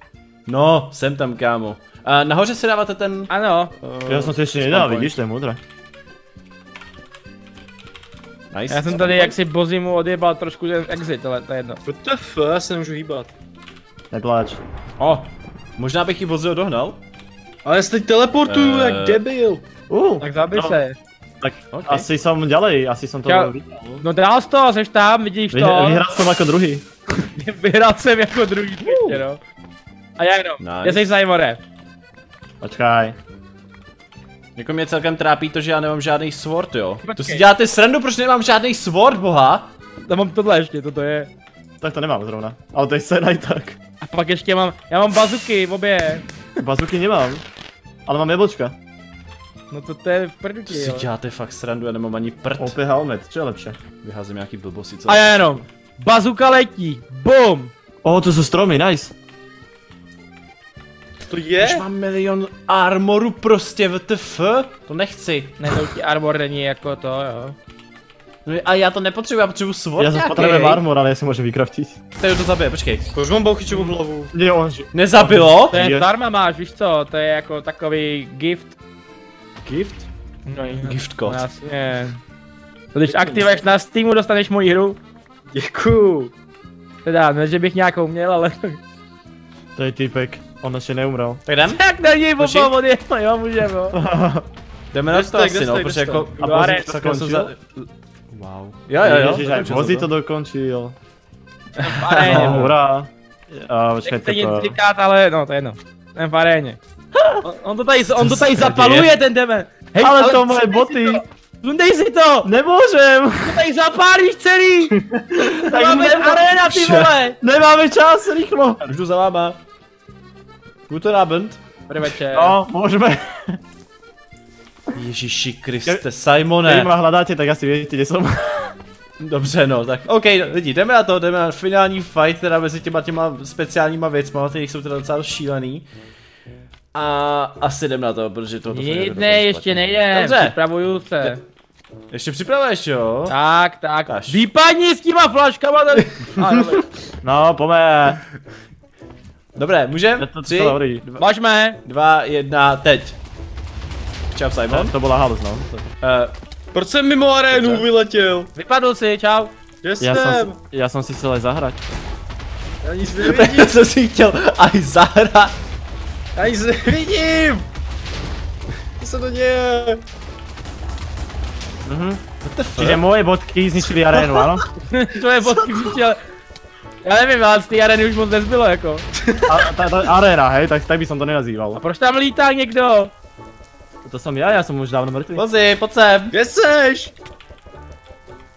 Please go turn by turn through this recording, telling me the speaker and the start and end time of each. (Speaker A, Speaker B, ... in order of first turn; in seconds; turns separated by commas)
Speaker A: 0.5-3.3, Speaker B: 3.3-3.7, Speaker A: 3.8-5.1, Speaker C: 4.1-5.6, Speaker A: 8.5-9.3, Speaker B: 8.7-11.8, Speaker D: 11.8-13.3, Speaker C: 14.1-14.6, Speaker A: 15.0-17.0, Speaker D: 17.6-19.6, Speaker A: 18.4-19.3, Speaker C: 19.9-20.8, Speaker B: 20.2-21.0, Speaker C: 21.4-24.0, Speaker A: 21.7-22.1, Speaker B: 23.2-26.0, Speaker C: 25.5-26.9, Speaker B: 27.4-29.4, Speaker A: 28.9-29.2, Speaker B: 30.2-31.6, Speaker A: 30.6-31.2, Speaker C: 32.6-33.2, Speaker A: 34.6-39.7, Speaker B: 37.0-37.4, Speaker B: 40.0-41.3, Speaker C: 41.8-43.8, Speaker B: 44.0-46.2, Speaker C: 46.6-47.4, Speaker C: 48.1-48.8, Speaker B: 49.7-51.1, Speaker A: 50.7-52.8, Speaker C: 52.6-53.8, Speaker A: 54.0-55.5, Speaker B: 55.1-57.7, Speaker C: 58.0-59.1, Speaker D: 61.2-61.9, Speaker A: 61.6-65.7, Speaker B: 65.6-67.6, Speaker A: 68.5-70.8, Speaker C: 70.0-72.0, Speaker A: 72.2-73.1, Speaker D: 73.1-74.3, Speaker C: 74.3-76.1, Speaker A: 74.9-75.8, Speaker B: 75.7-78.8, Speaker D: 79.7-80.1, Speaker B: 80.5-82.2, Speaker A: 80.8-81.5, Speaker B: 82.9-85.0, Speaker D: 83.1-83.5, Speaker D: 85.5-86.3, Speaker B: 87.0-88.8, Speaker C: 89.8-91.4, Speaker A: 91.5-91.8, Speaker B: 91.7-94.0, Speaker A: 92.4-92.8, Speaker C: 93.9-94.5, Speaker A: 94.9-100.1, Speaker D: 95.1-96.3, Speaker C: 96.4-97.5, Speaker B: 96.4-96.9, Speaker C: 99.0-101.0, Speaker B: 101.8-102.7, Speaker A: 101.8-102.7, Speaker C: 102.2-104.8, Speaker B: 104.0-106.8, Speaker B: 107.4-112.5, Speaker A: 108.0-109.1, Speaker C: 110.0-111.2, Speaker C: 112.4-113.6, Speaker B: 113.4-115.0, Speaker C: 115.3-116.6, Speaker B: 115.7-117.4, Speaker A: 116.6-117.2, Speaker C: 117.4-118.9, Speaker A: 118.9-119.6, Speaker A: 120.9-121.6, Speaker B: 121.9-122.6, Speaker C: 122.3-123.6, Speaker A: 124.9-126.9, Speaker C: 126.6-128.7, Speaker A: 129.2-135.9, Speaker A: 136.9-140.6, Speaker B: 138.7-141.4, Speaker A: 142.1-143.3, Speaker B: 143.3-146.8, Speaker A: 144.1-144.4, Speaker C: 147.2-148.2, Speaker A: 149.6-151.2, Speaker C: 150.2-151.0, Speaker B: 151.2-151.8, Speaker A: 151.8-153.2, Speaker A: 154.3-154.9, Speaker C: 154.7-155.8, Speaker A: 156.0-156.3, Speaker D: 156.7-158.5, Speaker A: 157.5-157.9, Speaker B: 158.6-159.5, Speaker D: 159.8-160.6, Speaker C: 160.0-161.8, Speaker D: 162.8-163.8, Speaker A: 163.2-165.6, Speaker D: 166.4-167.7, Speaker D: 169.0-170.0, Speaker C: 171.8-172.2, Speaker A: 172.4-173.0, Speaker C: 172.8-174.6, Speaker B: 174.9-176.2, Speaker B: 177.0-179.1, Speaker C: 179.5-181.8, Speaker B: 181.8-183.1, Speaker C: 184.0-185.4, Speaker A: 185.3-186.4, Speaker D: 186.3-187.1